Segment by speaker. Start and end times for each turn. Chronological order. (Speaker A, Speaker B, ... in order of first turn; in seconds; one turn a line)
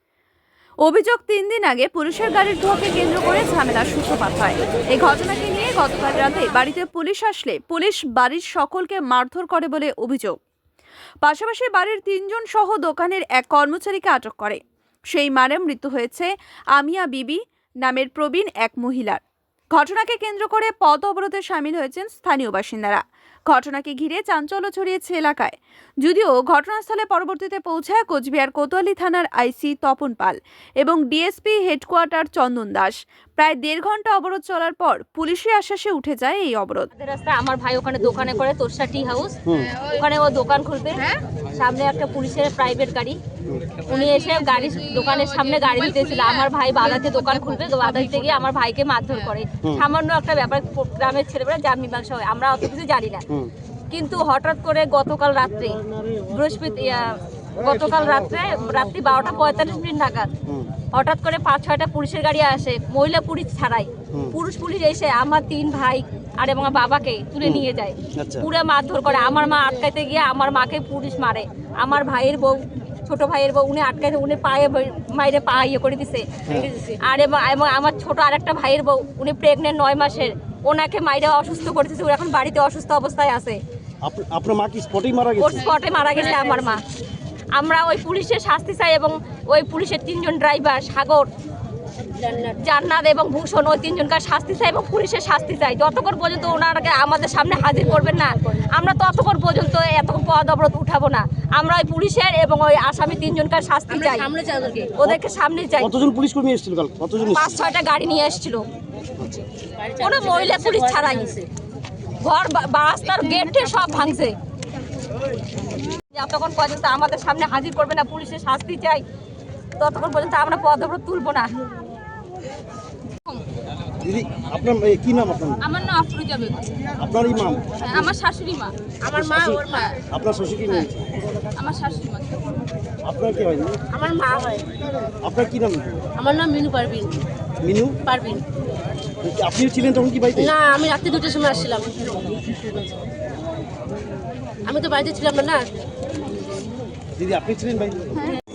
Speaker A: 0.8-10.4
Speaker A: 11.2-36.9
Speaker B: 37.0-39.4
Speaker C: 39.7-40.0
Speaker B: 39.9-43.2
Speaker B: 43.9-53.2
Speaker C: 43.9-48.4
Speaker B: 53.9-55.8
Speaker B: 56.3-60.3
Speaker B: 60.9-76.2
Speaker D: 68.1-68.5
Speaker E: 76.5-77.0
Speaker B: 77.0-83.6
Speaker D: 84.0-85.7
Speaker B: 85.4-86.8
Speaker E: 86.1-86.7
Speaker B: 87.6-91.3
Speaker E: 92.2-92.5
Speaker B: 92.6-104.3
Speaker E: 103.9-104.9
Speaker B: 104.9-106.0
Speaker D: 105.8-107.6
Speaker B: 107.3-108.6
Speaker D: 109.2-109.4
Speaker E: 109.8-111.5
Speaker B: 110.0-111.3
Speaker B: 112.2-114.3
Speaker C: 113.4-114.0
Speaker B: 116.1-119.0
Speaker B: 119.8-121.5
Speaker D: 124.0-125.6
Speaker C: 125.6-126.7
Speaker D: 127.0-128.1
Speaker C: 127.9-128.7
Speaker E: 129.0-129.9
Speaker D: 129.1-131.1
Speaker C: 131.6-132.7
Speaker D: 133.0-133.8
Speaker E: 133.9-134.7
Speaker D: 135.2-136.1
Speaker E: 136.2-137.2
Speaker D: 137.6-138.0
Speaker E: 138.1-138.4
Speaker D: 139.2-140.5
Speaker E: 140.4-142.5
Speaker E: 144.6-145.6
Speaker D: 147.2-148.1